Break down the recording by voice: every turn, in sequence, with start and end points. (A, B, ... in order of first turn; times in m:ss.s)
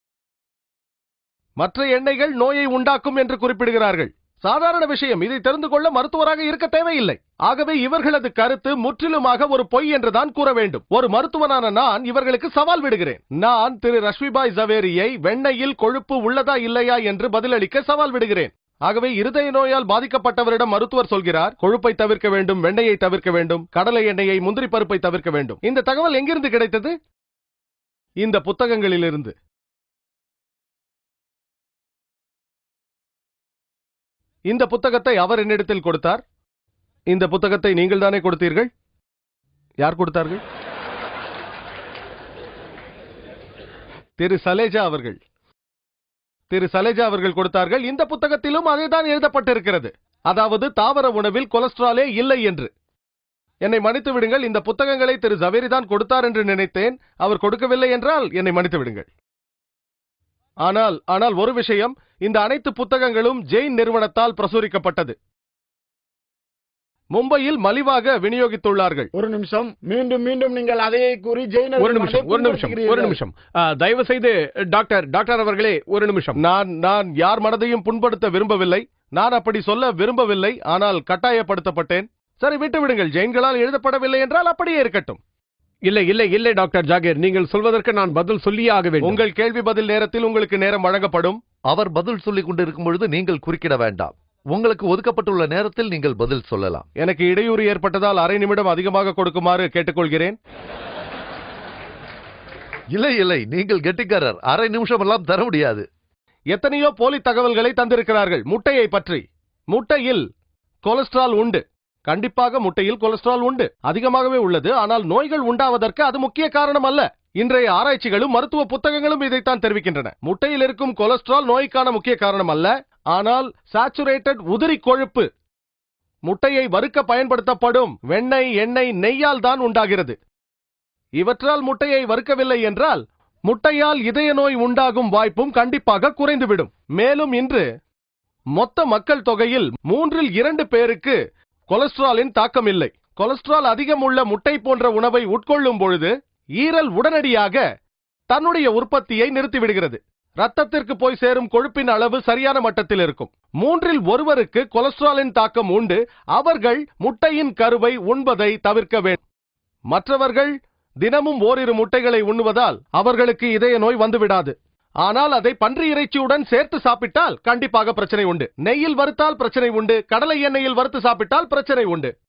0:01.6-0:26.9 A
0:28.2-0:29.3 A
0:34.5-0:36.2 A
0:37.1-0:38.7 A
0:39.8-0:40.4 A
0:44.2-0:45.2 A
0:46.5-0:52.7 A
0:53.6-0:59.1 A
1:00.6-1:05.1 A
1:07.1-1:09.1 A
1:09.2-1:13.2 B
1:11.8-1:16.4 C
1:16.4-1:25.2 A
1:25.8-1:29.2 C
1:29.0-1:31.4 A
1:31.7-1:36.8 D
1:37.0-1:40.4 A
1:43.0-1:45.8 D
1:46.5-1:50.2 A
1:50.8-2:05.3 A
2:06.2-2:10.1 A
2:11.2-2:17.6 A
2:18.6-2:21.2 A
2:21.7-2:27.6 A
2:28.3-2:39.2 A
2:39.9-2:44.5 A
2:45.0-2:52.1 A